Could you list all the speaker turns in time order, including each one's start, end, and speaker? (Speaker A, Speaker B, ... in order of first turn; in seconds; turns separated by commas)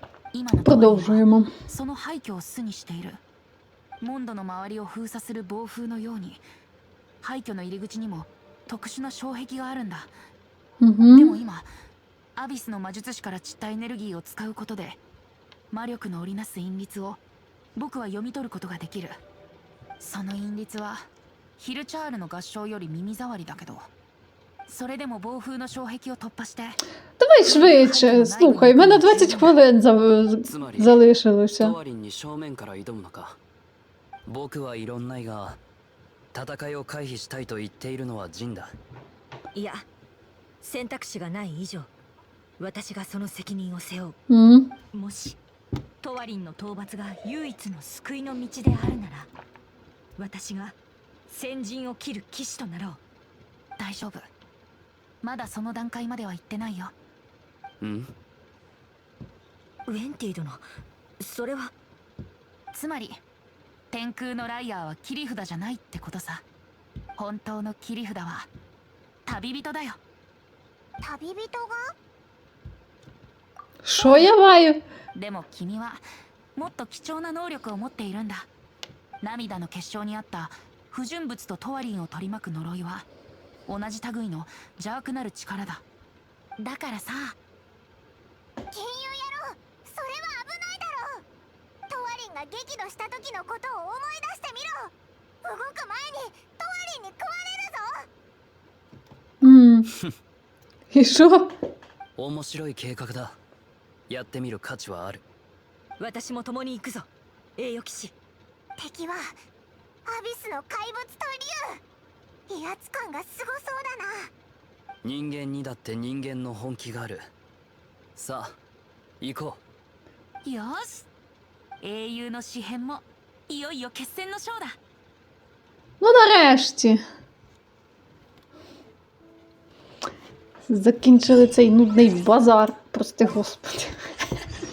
Speaker A: 0.3-3.2, Speaker B: 0.6-1.5, Speaker A: 4.0-6.4, Speaker A: 7.2-10.1, Speaker B: 10.8-11.3, Speaker A: 11.0-11.7, Speaker A: 12.3-15.0, Speaker A: 15.7-17.2, Speaker A: 17.8-19.2, Speaker A: 20.0-21.1, Speaker A: 21.6-23.9, Speaker A: 24.7-26.8, Speaker B: 27.2-31.7, Speaker A: 27.4-29.6, Speaker C: 30.4-31.0, Speaker C: 31.6-33.4, Speaker C: 34.2-35.6, Speaker C: 36.3-38.7, Speaker D: 39.5-39.8, Speaker D: 40.6-41.9, Speaker D: 42.6-44.1, Speaker B: 44.3-44.7, Speaker D: 44.9-45.4, Speaker D: 46.0-49.3, Speaker D: 50.2-50.8, Speaker D: 51.3-53.0, Speaker A: 53.8-54.3, Speaker A: 55.2-56.9, Speaker C: 57.8-58.1, Speaker D: 59.9-60.6, Speaker D: 61.2-61.7, Speaker A: 62.7-63.2, Speaker A: 63.9-66.4, Speaker A: 67.2-68.5, Speaker A: 69.2-70.0, Speaker E: 71.0-71.8, Speaker B: 73.8-74.8, Speaker A: 74.0-74.3, Speaker A: 75.1-76.0, Speaker A: 76.5-78.5, Speaker A: 79.2-83.1, Speaker A: 83.7-85.8, Speaker A: 86.6-87.3, Speaker E: 88.7-91.2, Speaker E: 91.9-94.9, Speaker E: 95.4-98.0, Speaker B: 99.4-99.9, Speaker B: 100.9-101.5, Speaker C: 102.2-103.4, Speaker C: 104.1-105.2, Speaker D: 106.0-108.1, Speaker E: 108.8-109.3, Speaker E: 110.0-111.8, Speaker E: 112.5-114.3, Speaker C: 115.0-117.2, Speaker C: 118.2-118.5, Speaker C: 119.2-119.6, Speaker A: 120.4-121.1, Speaker A: 121.8-124.8, Speaker B: 126.0-127.0, Speaker B: 130.7-133.9